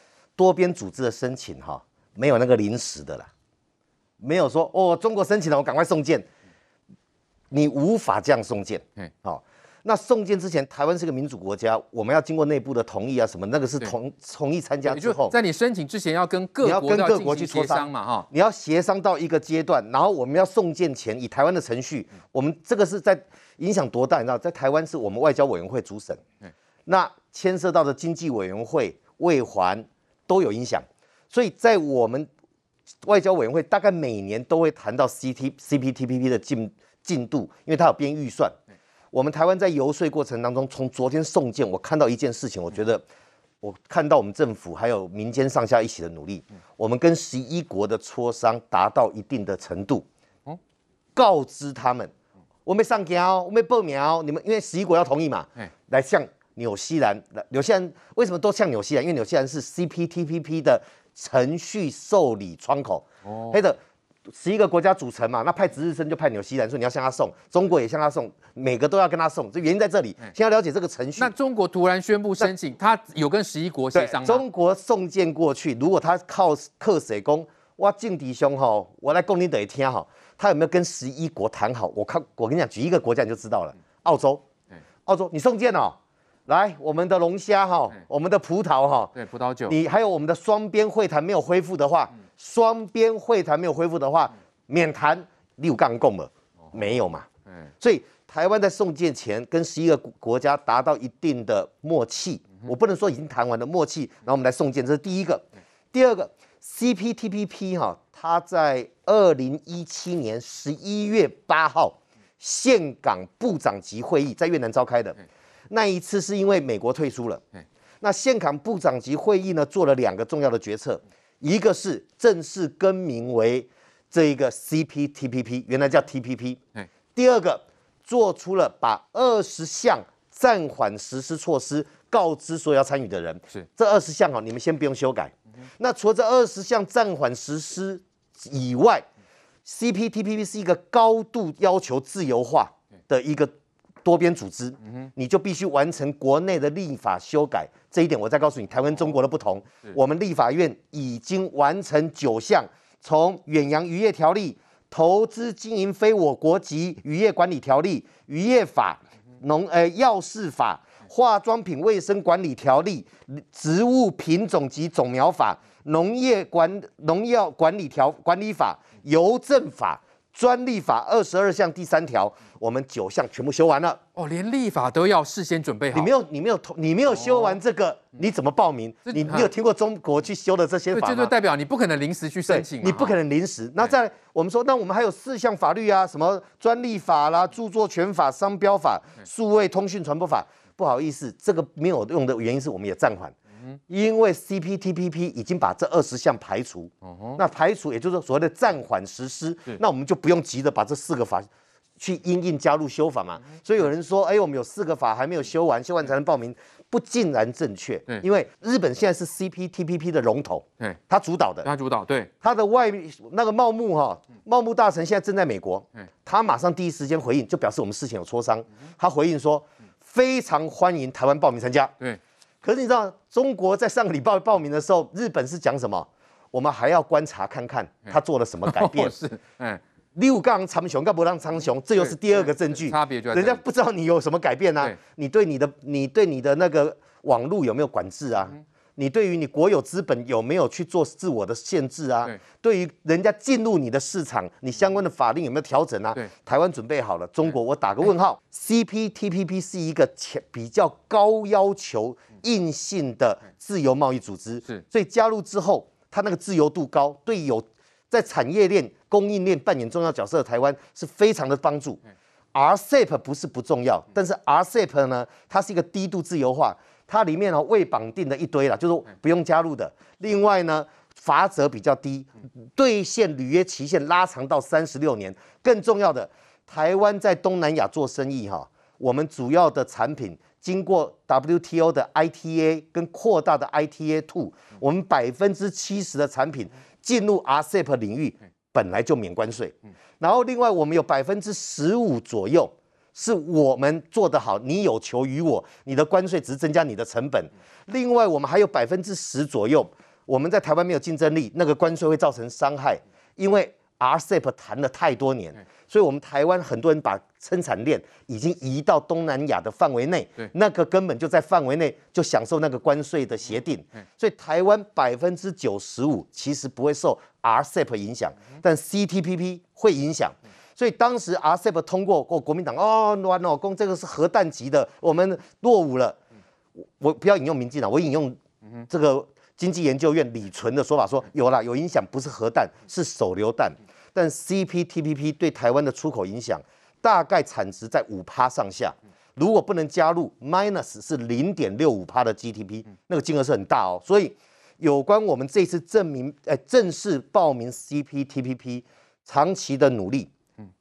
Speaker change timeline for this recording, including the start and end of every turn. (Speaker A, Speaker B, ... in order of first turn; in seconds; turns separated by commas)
Speaker A: 0.4-3.3, Speaker A: 4.2-6.3, Speaker A: 7.5-15.3, Speaker B: 14.8-18.3, Speaker A: 16.6-26.2, Speaker A: 26.9-32.3, Speaker A: 33.0-38.5, Speaker A: 39.1-43.0, Speaker A: 43.6-50.0, Speaker A: 51.1-52.1, Speaker A: 52.6-71.3, Speaker B: 63.2-63.6, Speaker B: 71.2-74.4, Speaker A: 73.9-84.4, Speaker A: 85.0-89.1, Speaker B: 89.1-89.7, Speaker A: 89.7-97.3, Speaker A: 97.8-117.4, Speaker A: 118.0-126.6, Speaker A: 127.1-139.0, Speaker A: 139.6-143.5, Speaker A: 144.0-174.0, Speaker B: 174.2-176.1, Speaker A: 175.9-181.3, Speaker B: 177.1-177.5, Speaker B: 179.1-179.5, Speaker B: 180.9-183.1, Speaker A: 182.5-193.3, Speaker A: 193.9-201.5, Speaker B: 197.0-197.4, Speaker A: 202.0-211.7, Speaker B: 211.6-212.3, Speaker A: 212.4-221.9, Speaker A: 222.6-229.1, Speaker B: 228.6-229.8, Speaker A: 230.1-262.0, Speaker B: 231.9-233.6, Speaker A: 262.5-326.2, Speaker A: 327.0-350.3